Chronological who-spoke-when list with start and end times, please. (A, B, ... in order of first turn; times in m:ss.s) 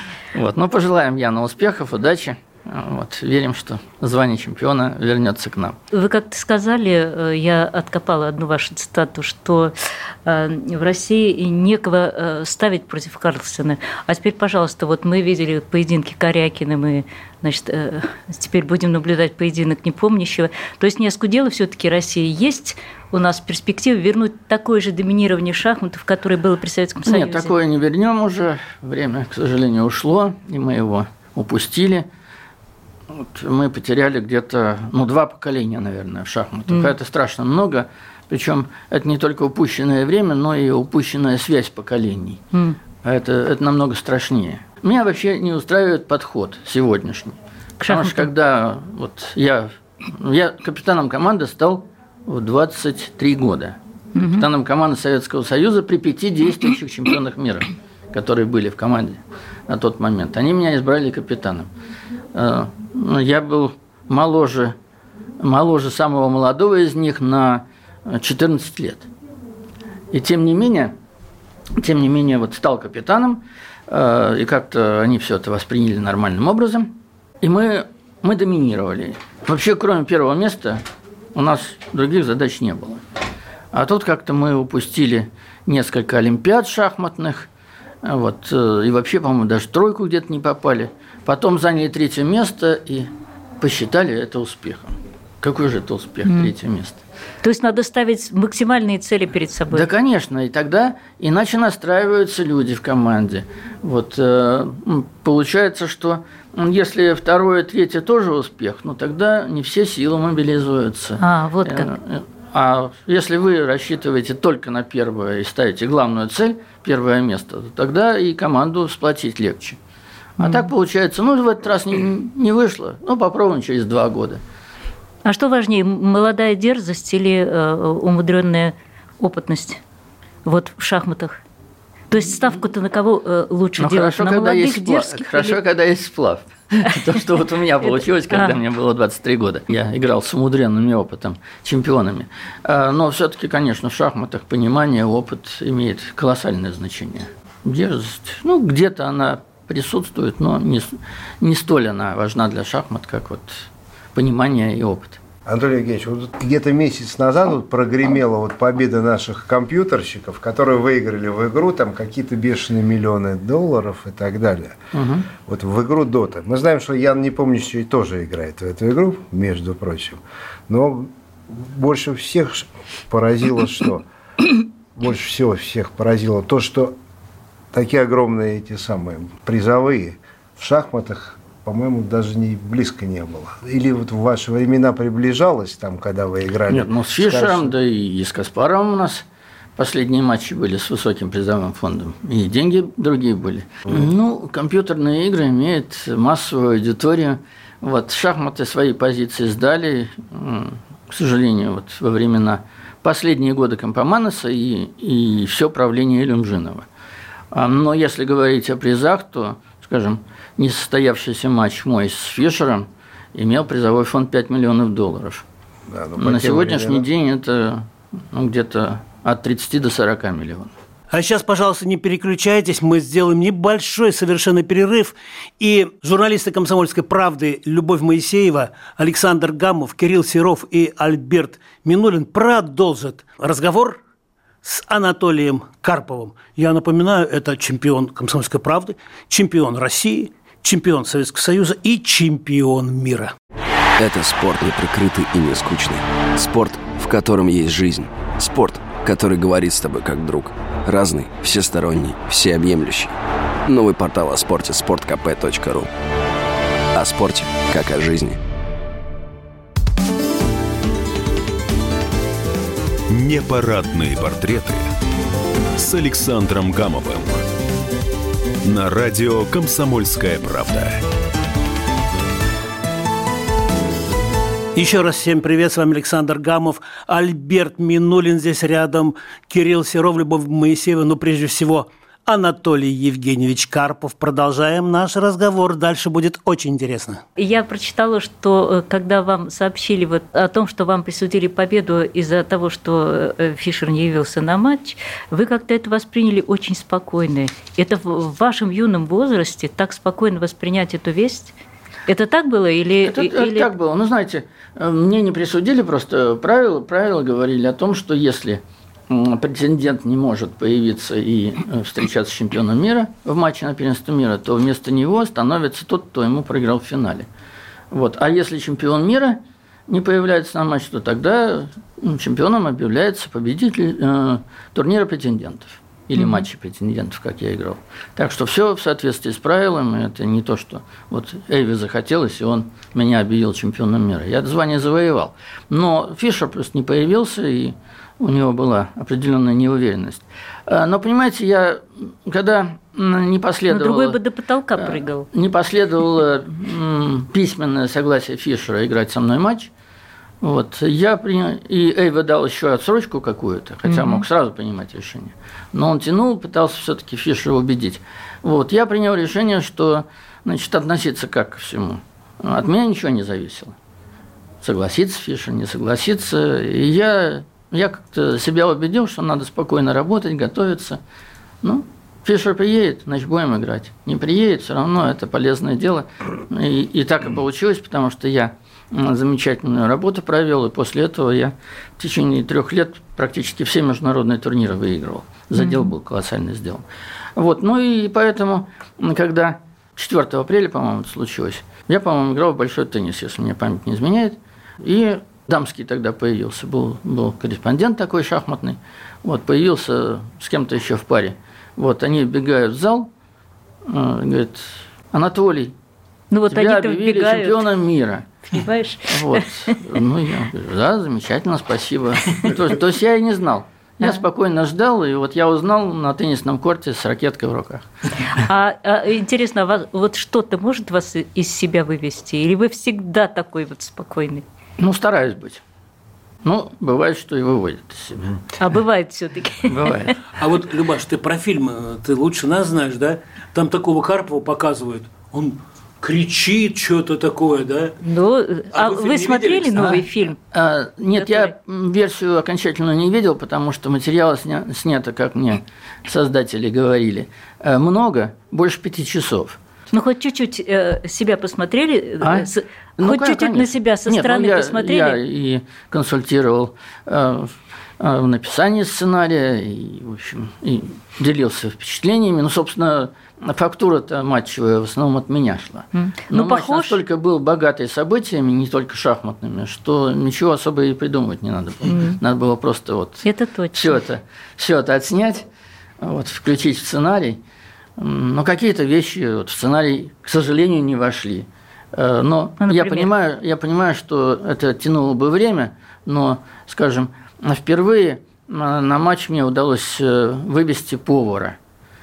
0:00.3-0:05.8 A
0:05.9-0:27.5 B
0:27.0-0:32.0 A
0:33.1-0:42.4 A
0:43.0-0:53.8 A
0:47.8-0:48.2 B
0:54.1-0:54.5 B
0:54.3-1:01.7 A
1:02.3-1:04.7 A
1:05.4-1:09.1 A
1:10.1-1:10.9 A
1:11.8-1:20.8 A
1:21.3-1:23.0 A
1:23.7-1:27.5 A
1:28.0-1:37.0 A
1:37.4-1:39.9 B
1:39.7-1:59.8 A
1:51.2-1:51.9 B
2:00.4-2:04.4 A
2:00.4-2:00.6 B
2:05.2-2:09.8 B
2:10.4-2:11.4 B
2:12.1-2:15.6 B
2:13.8-2:35.2 A
2:18.3-2:18.6 B
2:35.4-2:44.8 C
2:44.9-2:45.3 A
2:45.4-2:54.0 C
2:54.9-2:57.0 C
2:57.7-3:07.7 C
3:06.7-3:09.2 A
3:09.8-3:26.8 A
3:27.5-3:35.4 A
3:35.9-3:37.0 C
3:36.2-3:40.7 A
3:41.1-3:54.0 D
3:54.6-4:03.3 D
4:04.0-4:13.1 E
4:13.7-4:15.9 E
4:16.9-4:18.4 E
4:23.1-4:24.9 F
4:25.8-4:27.4 F
4:28.6-4:31.0 F
4:34.7-4:47.2 D
4:47.4-5:01.5 B
5:02.1-5:03.7 B
5:03.0-5:17.3 A
5:17.9-5:44.2 A
5:26.2-5:26.4 B
5:43.7-5:45.3 B
5:44.8-5:49.7 A
5:50.4-6:03.7 A
5:53.9-5:54.2 B
6:04.6-6:11.0 A
6:11.6-6:26.8 A
6:25.6-6:25.9 B
6:27.4-6:43.1 A
6:43.8-6:45.7 A
6:46.3-6:47.7 B
6:46.5-6:48.3 A
6:48.5-6:49.8 B
6:49.1-6:57.9 A
6:58.3-7:04.4 B
7:04.8-7:05.6 A
7:06.4-7:08.4 A
7:08.6-7:10.1 B
7:09.6-7:10.2 A
7:10.3-7:18.0 D
7:18.0-7:20.4 B
7:18.7-7:20.0 D
7:19.8-7:29.6 A
7:21.2-7:21.5 B
7:29.9-7:35.2 B
7:32.2-7:55.4 A
7:45.9-7:47.0 B
7:51.8-7:52.2 B
7:53.2-7:54.0 B
7:56.0-7:57.4 A
7:58.0-8:11.6 A
8:02.6-8:03.1 B